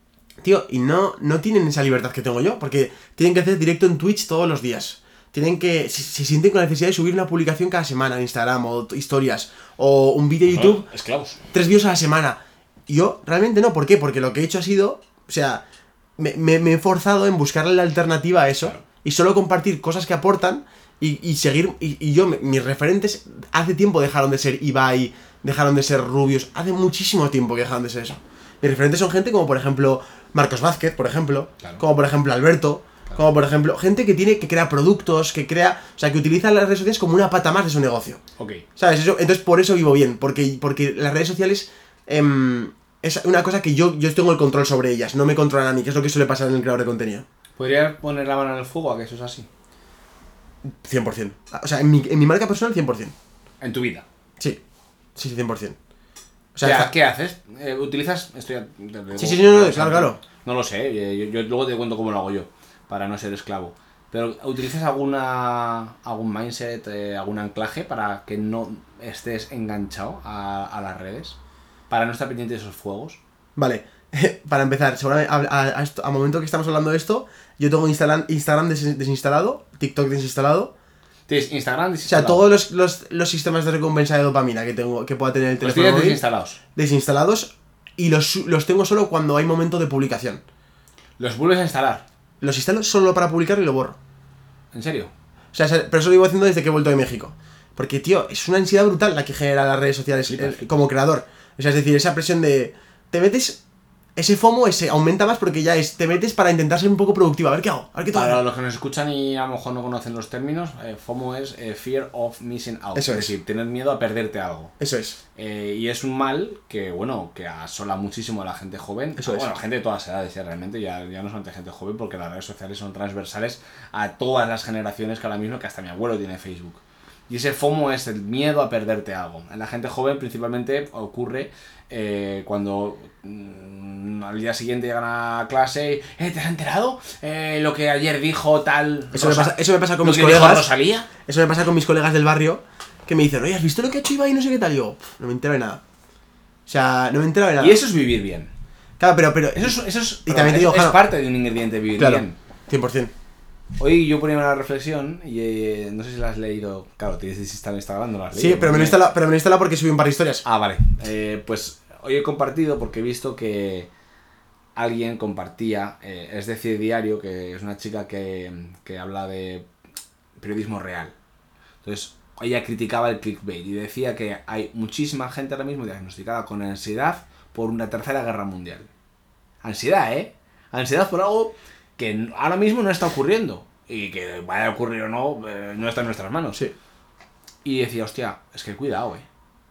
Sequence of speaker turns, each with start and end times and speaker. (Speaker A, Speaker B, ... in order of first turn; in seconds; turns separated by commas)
Speaker A: 0.4-10.9, Speaker B: 10.5-11.4, Speaker A: 11.5-15.6, Speaker A: 16.2-38.2, Speaker B: 38.4-38.6, Speaker A: 38.8-47.3, Speaker B: 47.6-49.5, Speaker A: 50.6-53.1, Speaker B: 53.6-54.1, Speaker A: 55.2-55.8, Speaker A: 56.5-56.9, Speaker B: 56.6-71.4, Speaker A: 59.2-60.2, Speaker B: 71.9-73.2, Speaker A: 73.6-80.7, Speaker B: 81.3-82.5, Speaker A: 82.1-86.2, Speaker B: 85.6-86.6, Speaker A: 86.8-90.4, Speaker B: 91.2-92.0, Speaker A: 92.4-94.0, Speaker B: 94.7-95.1, Speaker A: 95.5-103.6, Speaker B: 100.3-100.6, Speaker A: 104.2-108.4, Speaker B: 108.1-114.7, Speaker A: 112.9-113.3, Speaker A: 114.8-115.2, Speaker B: 115.4-141.1, Speaker A: 119.2-119.5, Speaker A: 139.1-140.7, Speaker A: 141.2-145.8, Speaker A: 146.7-147.8, Speaker B: 147.6-148.5, Speaker A: 149.0-151.0, Speaker B: 149.6-152.4, Speaker A: 152.0-153.1, Speaker B: 153.8-159.0, Speaker A: 158.3-160.4, Speaker B: 160.4-163.9, Speaker B: 164.8-169.7, Speaker B: 170.4-171.2, Speaker B: 171.8-178.9, Speaker B: 179.6-186.6, Speaker B: 187.6-189.3